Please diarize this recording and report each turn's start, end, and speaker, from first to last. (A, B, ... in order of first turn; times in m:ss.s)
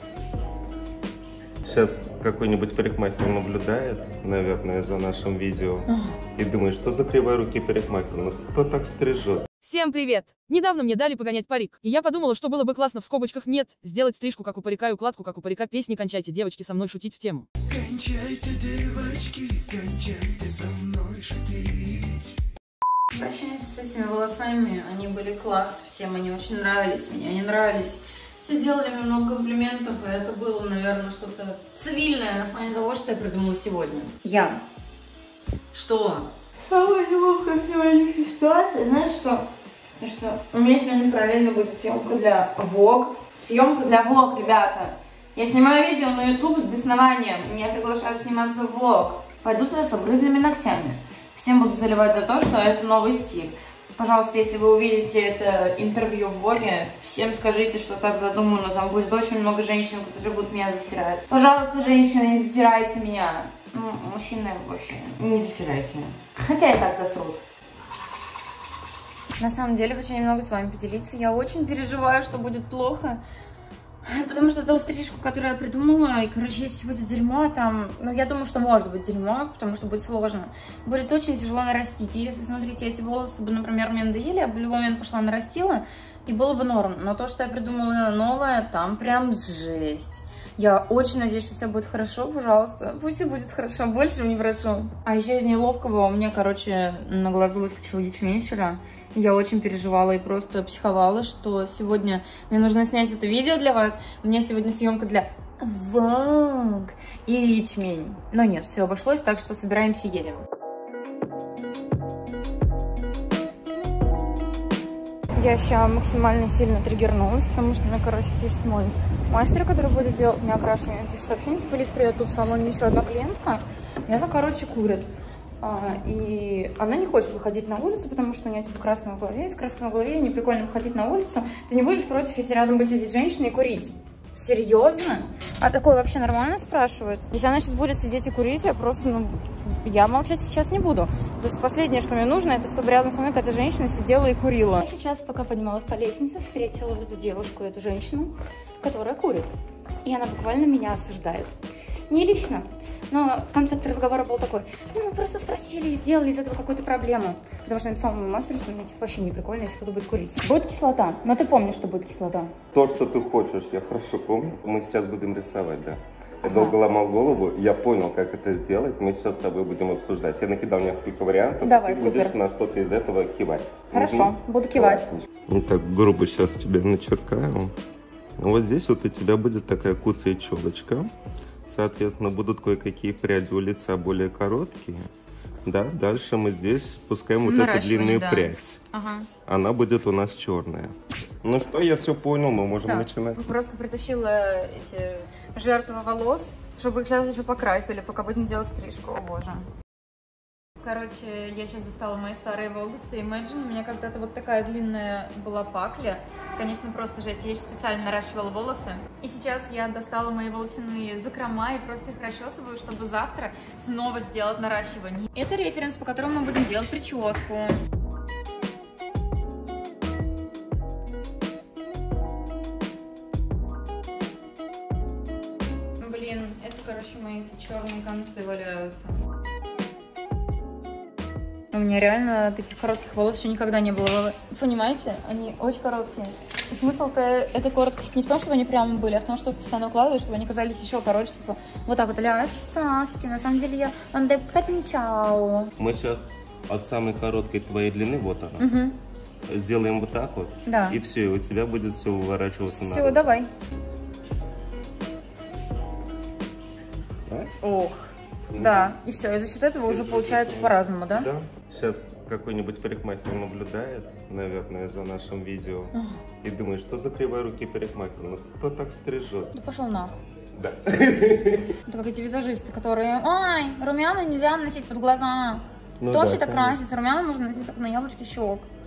0:01.7-0:09.5 A
0:09.6-0:17.5 B
0:19.0-0:22.2 C
0:23.1-0:34.6 D
0:35.7-0:39.5 D
0:40.0-1:07.4 D
1:09.4-1:13.2 D
1:14.0-1:50.5 D
1:55.4-2:05.1 D
2:05.6-2:29.5 D
2:30.0-2:31.5 D
2:32.1-2:42.5 D
2:42.7-2:57.7 A
2:46.4-2:46.8 D
2:51.6-2:52.4 D
2:53.9-2:55.1 D
2:58.4-3:01.1 A
3:01.7-3:05.1 A
3:05.7-3:08.8 A
3:07.4-3:09.3 D
3:09.5-3:13.4 A
3:12.8-3:19.7 D
3:20.8-3:37.8 D
3:46.0-3:49.2 D
3:51.7-4:05.7 D
4:05.8-4:08.8 A
4:08.6-4:09.0 D
4:09.5-4:13.3 A
4:10.7-4:11.0 D
4:12.7-4:13.5 D
4:17.3-4:17.5 A
4:17.6-4:21.3 D
4:18.5-4:18.9 A
4:19.9-4:29.6 A
4:25.9-4:26.2 D
4:29.5-4:30.2 D
4:30.6-4:31.7 A
4:31.8-4:38.7 D
4:36.0-4:36.8 A